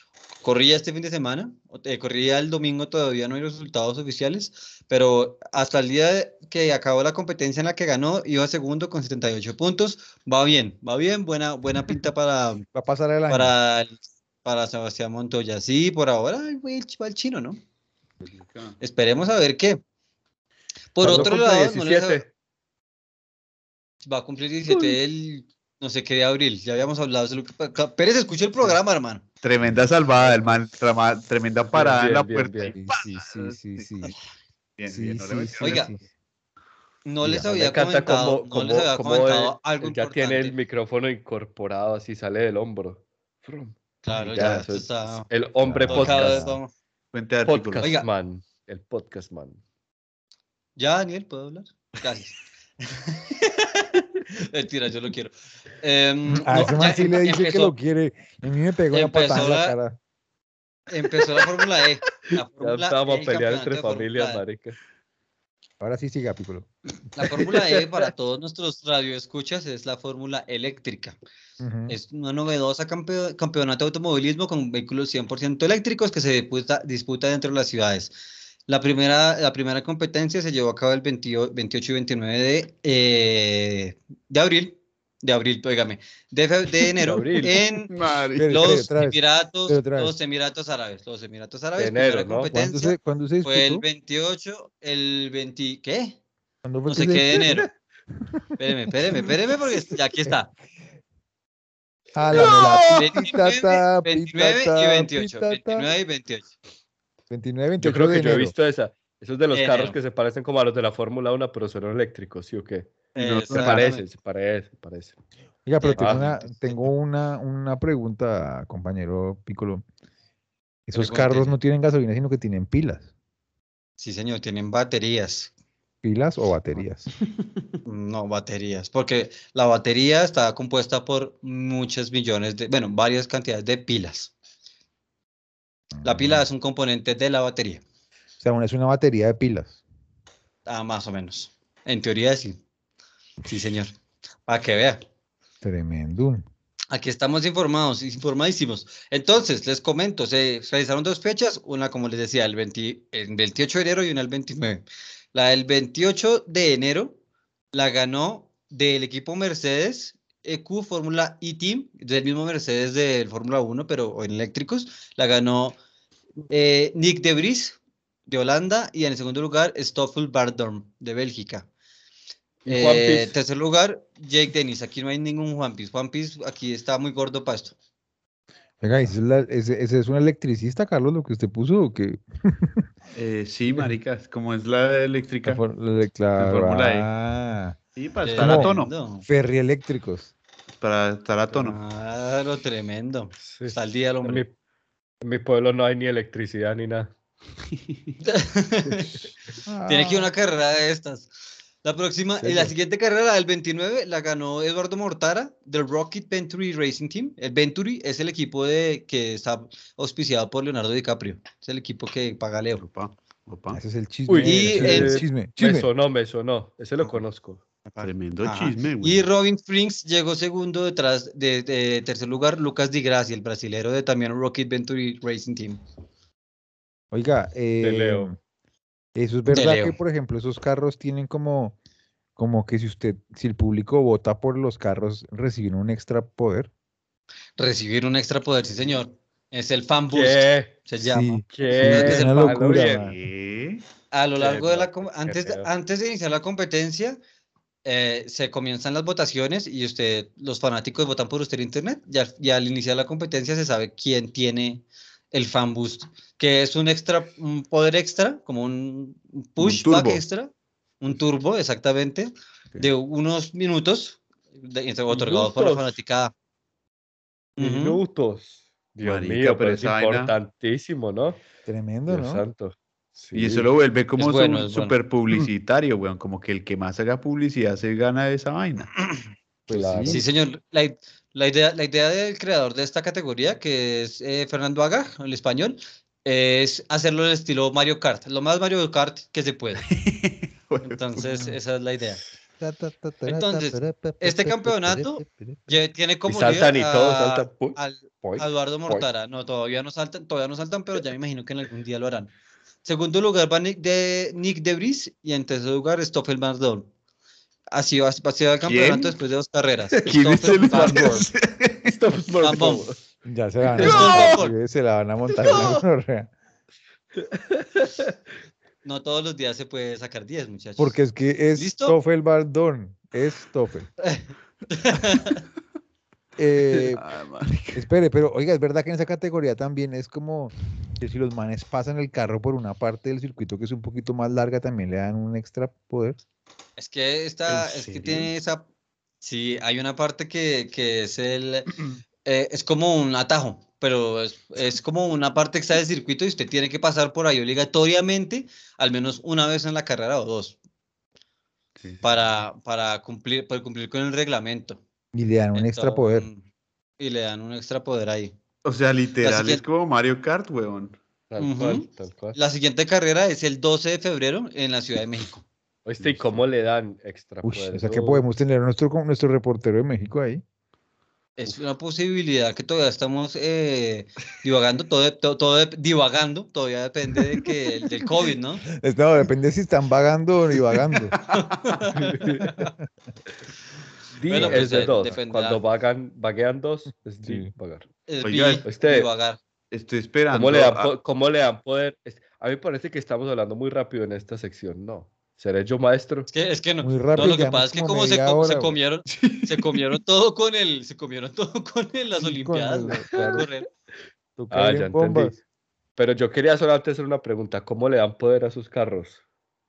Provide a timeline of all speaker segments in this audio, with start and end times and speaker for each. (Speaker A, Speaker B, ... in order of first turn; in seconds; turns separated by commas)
Speaker A: 0.4-12.7, Speaker B: 12.7-13.5, Speaker A: 13.3-17.6, Speaker C: 18.2-18.8, Speaker A: 18.8-19.8, Speaker A: 20.9-22.2, Speaker D: 21.0-22.3, Speaker A: 24.0-29.2, Speaker D: 24.7-25.0, Speaker C: 29.4-33.9, Speaker D: 31.6-32.7, Speaker B: 32.7-34.1, Speaker C: 34.8-35.9, Speaker B: 34.9-36.0, Speaker A: 35.6-35.9, Speaker A: 37.0-40.5, Speaker B: 37.2-37.5, Speaker D: 37.5-46.5, Speaker A: 44.0-45.3, Speaker B: 45.6-46.6, Speaker A: 45.9-46.7, Speaker C: 47.1-47.9, Speaker D: 47.5-49.6, Speaker A: 47.8-48.1, Speaker A: 50.8-57.7, Speaker B: 56.3-60.0, Speaker A: 58.9-59.8, Speaker A: 60.9-64.4, Speaker D: 62.3-64.8, Speaker B: 65.8-66.7, Speaker A: 67.2-71.2, Speaker D: 67.2-68.1, Speaker B: 71.6-72.0, Speaker A: 71.9-78.1, Speaker A: 78.7-87.9, Speaker D: 87.0-87.6, Speaker C: 87.4-88.8, Speaker B: 88.4-90.1, Speaker A: 88.5-96.2, Speaker D: 91.8-92.5, Speaker B: 92.5-93.8, Speaker B: 96.6-97.7, Speaker A: 96.9-97.7, Speaker A: 98.6-100.5, Speaker B: 102.1-105.9, Speaker D: 102.3-103.0, Speaker A: 102.3-106.5, Speaker B: 107.3-108.5, Speaker D: 107.8-115.2, Speaker A: 109.5-110.0, Speaker A: 113.1-114.0, Speaker C: 113.2-113.9, Speaker B: 115.7-119.8, Speaker A: 115.8-116.7, Speaker D: 116.0-116.4, Speaker B: 120.9-123.1, Speaker A: 120.9-121.6, Speaker A: 124.0-125.5, Speaker B: 126.0-127.1, Speaker A: 127.8-134.3, Speaker B: 135.9-136.4, Speaker A: 136.0-137.8, Speaker B: 138.4-139.8, Speaker A: 140.7-142.6, Speaker A: 143.4-143.9, Speaker A: 144.5-145.0, Speaker B: 145.6-146.4, Speaker A: 146.9-157.2, Speaker A: 157.7-165.8, Speaker A: 166.5-171.7, Speaker D: 172.6-173.3, Speaker A: 172.7-177.7, Speaker B: 178.8-182.9, Speaker C: 183.1-185.6, Speaker B: 185.4-187.8, Speaker C: 186.4-187.1, Speaker C: 187.9-188.9, Speaker A: 188.2-189.2, Speaker B: 188.3-190.3, Speaker C: 190.8-191.8, Speaker A: 191.5-194.4, Speaker D: 193.4-194.5, Speaker D: 195.2-197.1, Speaker A: 198.2-199.2, Speaker B: 199.7-200.3, Speaker A: 199.9-201.3, Speaker A: 201.8-212.8, Speaker D: 202.4-202.7, Speaker C: 212.7-213.8, Speaker B: 213.7-215.9, Speaker D: 214.3-217.6, Speaker A: 214.4-215.2, Speaker A: 217.9-225.8, Speaker C: 218.0-219.3, Speaker B: 227.1-228.3, Speaker D: 227.8-228.3, Speaker B: 229.1-231.8, Speaker A: 229.5-230.0, Speaker B: 232.3-236.7, Speaker A: 237.6-242.9, Speaker D: 240.1-240.7, Speaker B: 241.0-243.2, Speaker D: 241.5-243.1, Speaker C: 243.0-243.8, Speaker A: 244.1-247.2, Speaker D: 244.4-245.7, Speaker A: 247.8-266.3, Speaker C: 259.6-260.2, Speaker D: 265.1-265.9, Speaker A: 267.6-268.0, Speaker D: 267.6-271.4, Speaker C: 269.0-270.3, Speaker B: 271.6-272.4, Speaker D: 272.1-273.7, Speaker C: 273.3-278.9, Speaker A: 274.2-274.9, Speaker B: 279.7-280.2, Speaker D: 279.7-280.2, Speaker A: 280.1-289.9, Speaker C: 289.8-291.2, Speaker A: 290.8-292.2, Speaker B: 292.6-295.8, Speaker A: 293.2-302.3, Speaker D: 296.2-299.1, Speaker A: 302.8-306.9, Speaker A: 307.7-311.2, Speaker C: 308.6-309.2, Speaker C: 310.1-312.0, Speaker D: 310.5-311.2, Speaker D: 311.9-313.0, Speaker A: 312.4-312.9, Speaker B: 313.2-316.3, Speaker D: 313.7-314.3, Speaker A: 313.8-314.6, Speaker A: 315.4-315.8, Speaker D: 317.1-318.1, Speaker A: 318.8-321.0, Speaker B: 320.8-323.9, Speaker A: 321.5-321.9, Speaker A: 324.0-325.4, Speaker B: 326.4-327.0, Speaker C: 326.9-327.8, Speaker B: 327.7-336.2, Speaker A: 336.8-338.6, Speaker C: 337.5-338.3, Speaker A: 339.2-341.7, Speaker A: 342.2-350.6, Speaker A: 352.0-354.8, Speaker B: 355.1-356.3, Speaker A: 355.5-356.4, Speaker A: 357.0-358.3, Speaker C: 358.6-361.0, Speaker A: 359.2-359.6, Speaker D: 361.3-362.4, Speaker A: 361.4-365.4, Speaker D: 365.8-368.2, Speaker C: 366.0-366.4, Speaker B: 367.4-370.4, Speaker A: 371.4-378.6, Speaker B: 378.8-381.1, Speaker C: 381.1-381.7, Speaker A: 381.3-382.7, Speaker D: 381.9-382.5, Speaker D: 384.2-387.9, Speaker A: 384.2-385.6, Speaker B: 384.3-384.8, Speaker B: 387.2-387.5, Speaker A: 388.1-389.4, Speaker C: 388.2-388.6, Speaker D: 388.6-389.1, Speaker C: 389.7-390.9, Speaker D: 390.3-396.3, Speaker A: 396.3-403.7, Speaker B: 396.8-398.8, Speaker C: 399.1-399.8, Speaker B: 402.2-403.4, Speaker D: 403.1-403.5, Speaker B: 404.4-405.3, Speaker D: 404.5-405.4, Speaker D: 406.0-409.2